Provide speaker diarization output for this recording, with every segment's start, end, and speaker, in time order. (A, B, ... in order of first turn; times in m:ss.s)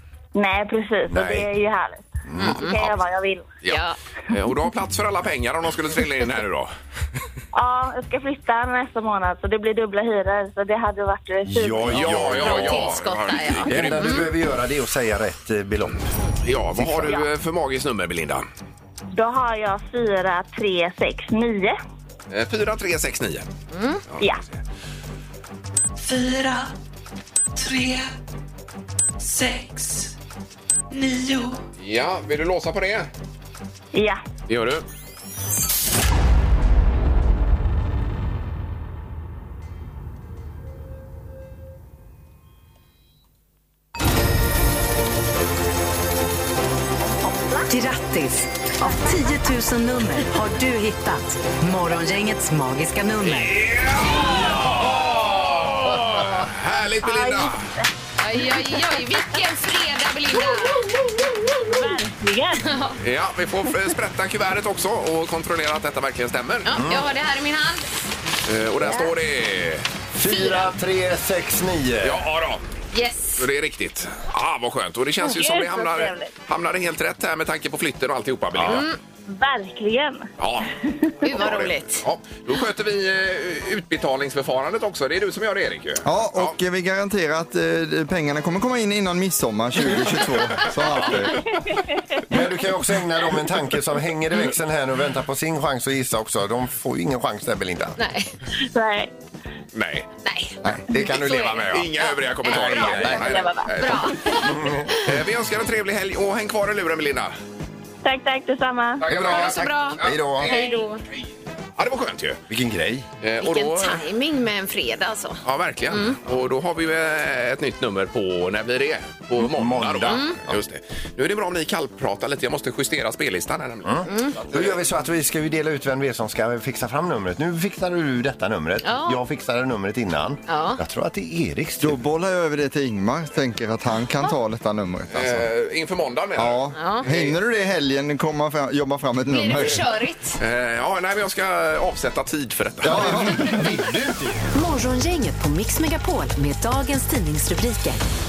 0:00.3-0:03.5 A
0:01.1-0:01.5 B
0:02.2-0:02.6 B
0:02.4-0:02.8 C
0:02.6-0:03.0 D
0:03.6-0:06.7 D
0:03.7-0:04.0 C
0:07.5-0:12.3 A
0:11.5-0:13.0 B
0:11.9-0:14.3 D
0:12.4-0:14.2 C
0:13.6-0:16.1 B
0:16.4-0:18.4 D
0:16.8-0:17.2 B
0:19.1-0:21.8 A
0:22.3-0:23.5 D
0:23.7-0:24.0 C
0:26.0-0:26.7 E
0:27.6-0:28.1 E
0:29.2-0:30.2 E
0:30.9-0:31.6 E
0:31.8-0:33.1 D
0:33.9-0:34.2 A
0:34.5-0:34.8 D
0:47.7-0:53.6 F
0:53.2-0:57.6 D
0:55.9-0:56.2 A
0:57.0-0:57.9 A
0:58.2-1:00.8 C
1:00.6-1:02.7 A
1:02.6-1:03.0 C
1:03.0-1:06.7 D
1:06.6-1:07.9 C
1:06.7-1:07.0 B
1:08.5-1:09.9 D
1:08.8-1:09.1 A
1:10.1-1:12.2 B
1:10.3-1:10.7 C
1:12.0-1:12.6 D
1:12.9-1:13.4 C
1:13.4-1:18.9 D
1:15.2-1:16.2 A
1:18.5-1:18.8 B
1:18.7-1:19.0 C
1:19.3-1:20.3 A
1:20.4-1:20.7 D
1:21.2-1:22.0 C
1:21.2-1:26.5 D
1:26.0-1:31.5 G
1:30.6-1:31.3 D
1:32.3-1:38.0 B
1:38.0-1:38.3 C
1:38.6-1:39.1 A
1:39.7-1:40.1 D
1:40.2-1:45.1 C
1:40.9-1:47.3 D
1:42.7-1:43.7 A
1:42.8-1:43.1 B
1:44.3-1:45.1 B
1:48.0-1:49.1 A
1:49.0-1:50.7 D
1:49.0-1:50.5 B
1:49.2-1:51.0 C
1:51.8-1:52.4 D
1:52.5-1:53.1 B
1:53.2-1:54.0 D
1:53.4-1:56.2 C
1:55.4-2:04.8 D
1:59.4-2:00.6 B
2:00.1-2:00.4 C
2:03.8-2:12.0 B
2:04.1-2:04.3 C
2:08.8-2:09.2 C
2:10.5-2:10.8 C
2:11.8-2:15.5 G
2:15.1-2:17.4 D
2:16.4-2:19.8 G
2:16.7-2:17.0 C
2:19.3-2:20.4 C
2:20.4-2:23.6 D
2:22.8-2:23.8 G
2:22.9-2:24.4 B
2:24.5-2:28.0 F